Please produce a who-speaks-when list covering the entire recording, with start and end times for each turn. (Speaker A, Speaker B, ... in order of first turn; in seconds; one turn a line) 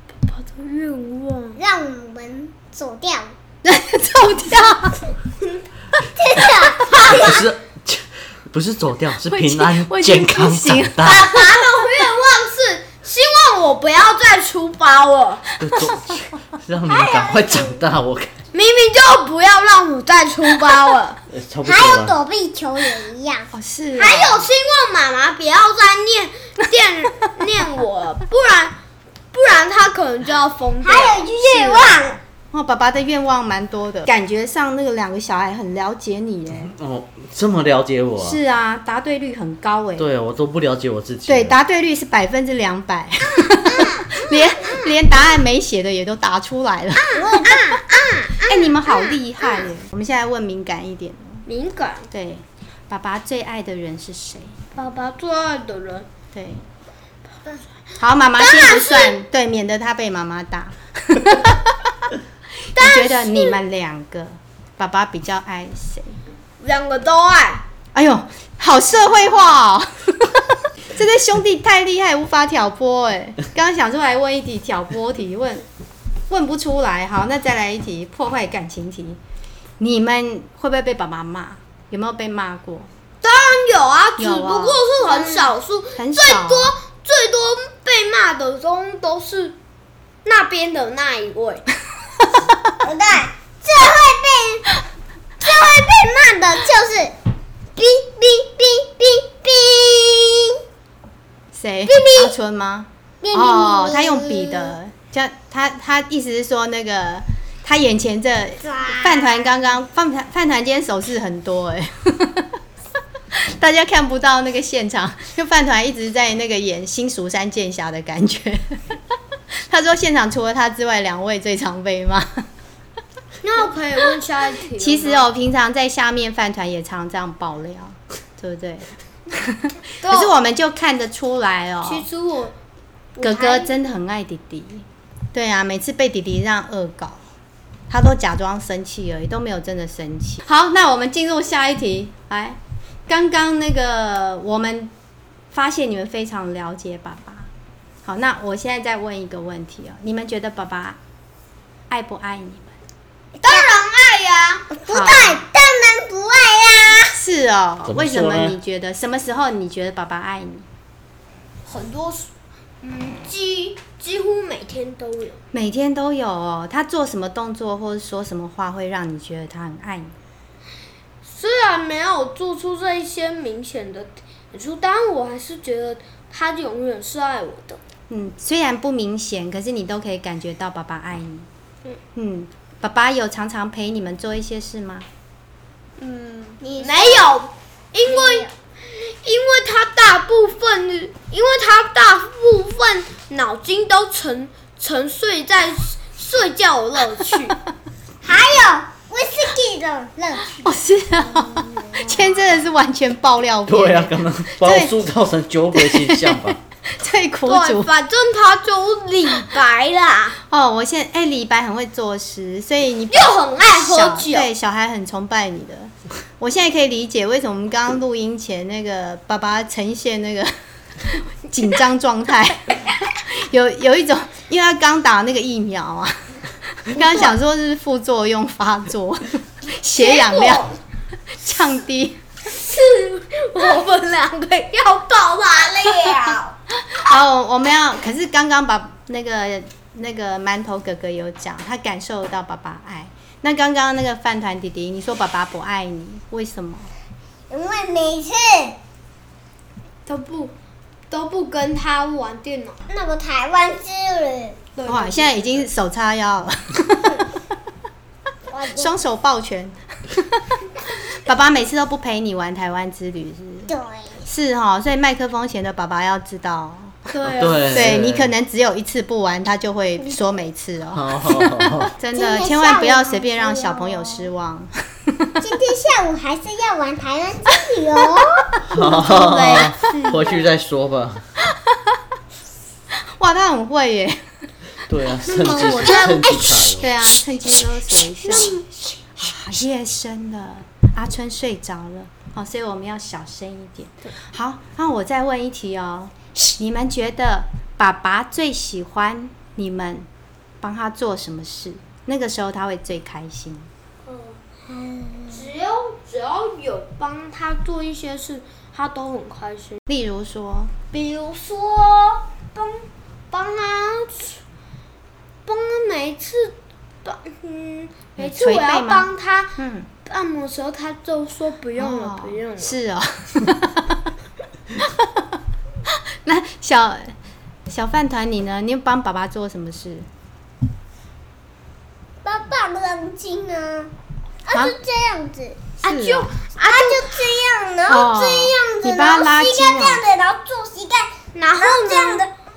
Speaker A: 0.2-1.6
Speaker B: 1.6-3.3
Speaker C: 3.6-5.0
Speaker B: 6.2-7.4
Speaker D: 7.0-11.3
Speaker C: 9.3-11.5
Speaker A: 11.0-15.4
Speaker D: 15.6-18.3
Speaker B: 16.9-17.8
Speaker A: 18.5-21.2
Speaker D: 21.3-22.2
Speaker B: 21.6-23.5
Speaker C: 23.5-24.5
Speaker A: 23.9-28.8
Speaker A: 29.3-32.1
Speaker B: 30.8-32.2
Speaker C: 32.5-36.7
Speaker D: 36.6-38.4
Speaker C: 38.2-40.1
Speaker D: 40.0-41.5
Speaker C: 41.3-47.1
Speaker B: 43.6-44.1
Speaker A: 44.6-44.9
Speaker A: 47.0-49.1
Speaker B: 47.1-48.1
Speaker C: 48.4-51.4
Speaker A: 51.5-52.1
Speaker C: 52.1-54.5
Speaker A: 54.7-56.1
Speaker C: 56.3-56.6
Speaker C: 58.0-61.8
Speaker A: 58.4-59.2
Speaker C: 62.7-66.2
Speaker A: 62.7-63.6
Speaker A: 66.6-67.6
Speaker C: 67.9-75.7
Speaker C: 76.3-79.2
Speaker C: 79.8-82.9
Speaker A: 83.2-89.6
Speaker C: 84.2-84.8
Speaker B: 85.0-85.5
Speaker C: 86.0-86.7
Speaker A: 90.2-91.6
Speaker B: 92.8-94.7
Speaker B: 95.4-97.1
Speaker B: 97.8-100.6
Speaker C: 101.5-112.5
Speaker B: 101.9-102.3
Speaker B: 103.2-104.8
Speaker B: 108.6-109.4
Speaker C: 113.3-118.8
Speaker C: 119.7-122.4
Speaker A: 123.4-125.3
Speaker C: 124.8-132.0
Speaker A: 130.0-130.4
Speaker A: 131.8-132.5
Speaker A: 133.2-133.7
Speaker C: 133.2-137.2
Speaker C: 137.9-144.9
Speaker C: 145.5-147.5
Speaker C: 148.0-151.0
Speaker C: 151.9-152.7
Speaker A: 153.4-154.7
Speaker B: 154.7-157.2
Speaker C: 154.9-155.4
Speaker C: 157.1-160.7
Speaker D: 157.8-158.6
Speaker A: 161.7-162.3
Speaker A: 162.8-165.4
Speaker C: 165.5-170.1
Speaker A: 171.2-177.8
Speaker C: 178.1-181.5
Speaker C: 182.1-185.1
Speaker A: 186.0-197.6
Speaker B: 186.6-187.3
Speaker B: 188.0-188.5
Speaker B: 198.2-200.6
Speaker C: 200.6-204.9
Speaker B: 201.6-202.2
Speaker D: 203.7-206.6
Speaker C: 205.7-207.9
Speaker A: 207.4-210.3
Speaker C: 210.4-220.5
Speaker A: 213.1-214.5
Speaker C: 221.0-226.1
Speaker C: 226.9-230.7
Speaker A: 227.0-227.3
Speaker A: 229.9-230.7
Speaker C: 231.4-232.2
Speaker A: 232.5-236.6
Speaker C: 236.9-246.9
Speaker B: 247.5-248.8
Speaker A: 250.1-250.5
Speaker A: 251.1-252.8
Speaker B: 252.9-254.6
Speaker A: 254.8-255.7
Speaker C: 254.8-257.2
Speaker B: 258.5-258.9
Speaker C: 258.7-260.4
Speaker C: 261.1-263.7
Speaker B: 263.7-264.2
Speaker C: 264.2-266.9
Speaker A: 267.1-267.7
Speaker D: 267.2-268.3
Speaker C: 267.7-275.4
Speaker D: 270.9-271.9
Speaker B: 272.1-274.3
Speaker B: 275.4-278.6
Speaker D: 278.7-281.2
Speaker A: 278.7-280.5
Speaker C: 283.2-284.2
Speaker D: 284.9-286.9
Speaker B: 285.3-286.8
Speaker C: 285.5-285.9
Speaker C: 286.8-288.6
Speaker B: 288.3-288.9
Speaker A: 288.3-288.6
Speaker C: 289.2-300.1
Speaker C: 300.6-303.7
Speaker A: 304.1-304.4
Speaker B: 304.6-305.5
Speaker A: 305.3-309.8
Speaker C: 309.9-310.7
Speaker A: 310.9-314.4
Speaker A: 315.4-322.7
Speaker C: 318.2-319.9
Speaker C: 321.8-324.0
Speaker C: 324.8-325.1
Speaker C: 326.2-327.1
Speaker C: 327.7-330.1
Speaker B: 332.2-333.9
Speaker B: 334.4-335.6
Speaker A: 335.8-337.2
Speaker C: 335.8-336.3
Speaker B: 336.6-342.3
Speaker C: 337.9-340.0
Speaker A: 341.3-342.3